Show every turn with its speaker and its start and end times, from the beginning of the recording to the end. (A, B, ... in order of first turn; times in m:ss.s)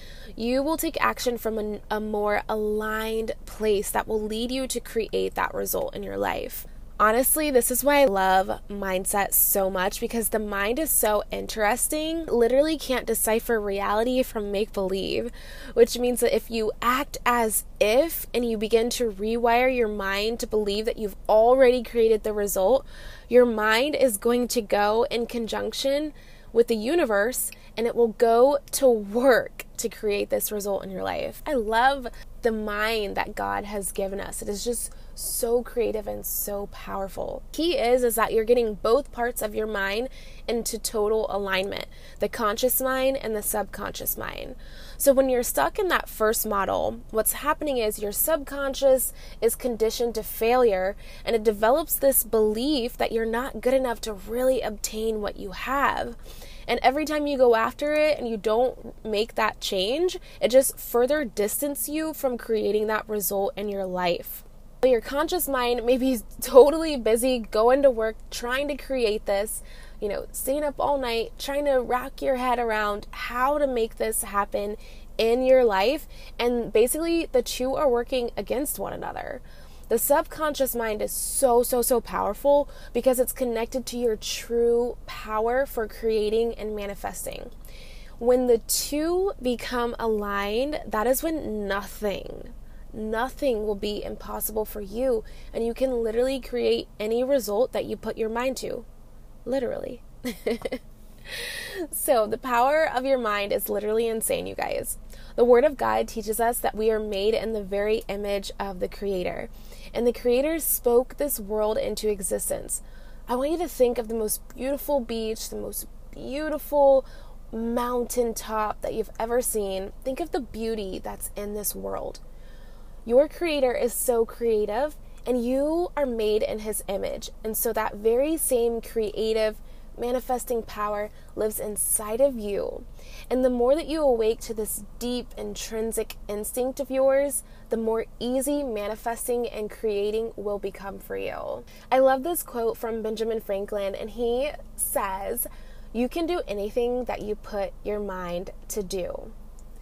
0:00.4-1:27.5 A
1:28.2-1:38.9 A
1:39.4-2:02.2 A
2:03.0-2:29.3 A